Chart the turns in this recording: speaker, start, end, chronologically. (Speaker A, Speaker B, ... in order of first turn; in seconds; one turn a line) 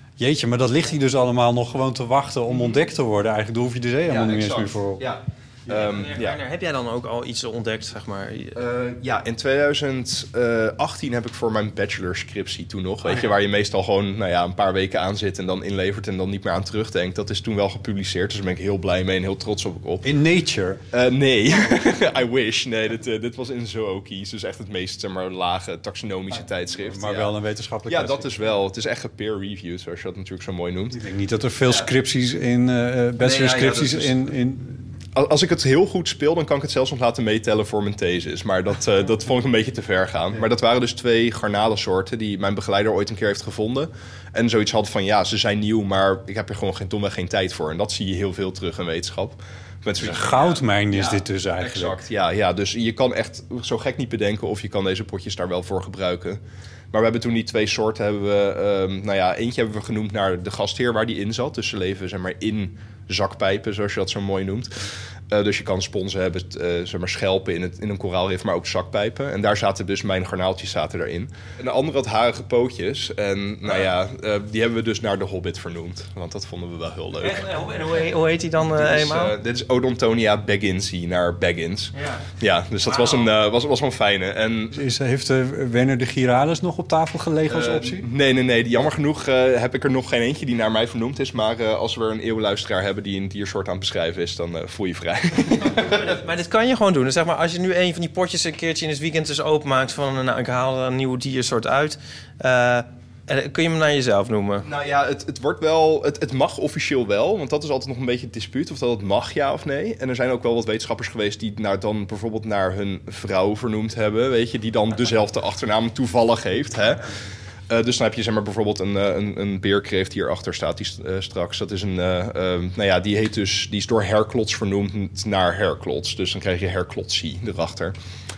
Speaker A: 0.2-5.0
Speaker B: 2.5-2.9
Speaker B: 4.0-6.4
Speaker C: 5.7-8.6
Speaker B: 8.5-20.2
Speaker A: 13.0-13.3
Speaker A: 20.0-20.8
Speaker B: 20.9-27.4
Speaker A: 26.8-28.5
Speaker B: 27.9-31.0
Speaker A: 30.9-34.9
Speaker B: 31.6-31.9
Speaker B: 33.2-34.3
Speaker B: 35.1-56.4
Speaker A: 50.0-52.0
Speaker B: 56.9-77.7
Speaker C: 77.2-79.3
Speaker B: 78.6-84.8
Speaker C: 81.9-82.3
Speaker C: 82.8-83.3
Speaker A: 84.7-88.1
Speaker B: 87.5-96.2
Speaker C: 95.8-104.7
Speaker B: 104.6-117.2
Speaker B: 117.7-128.0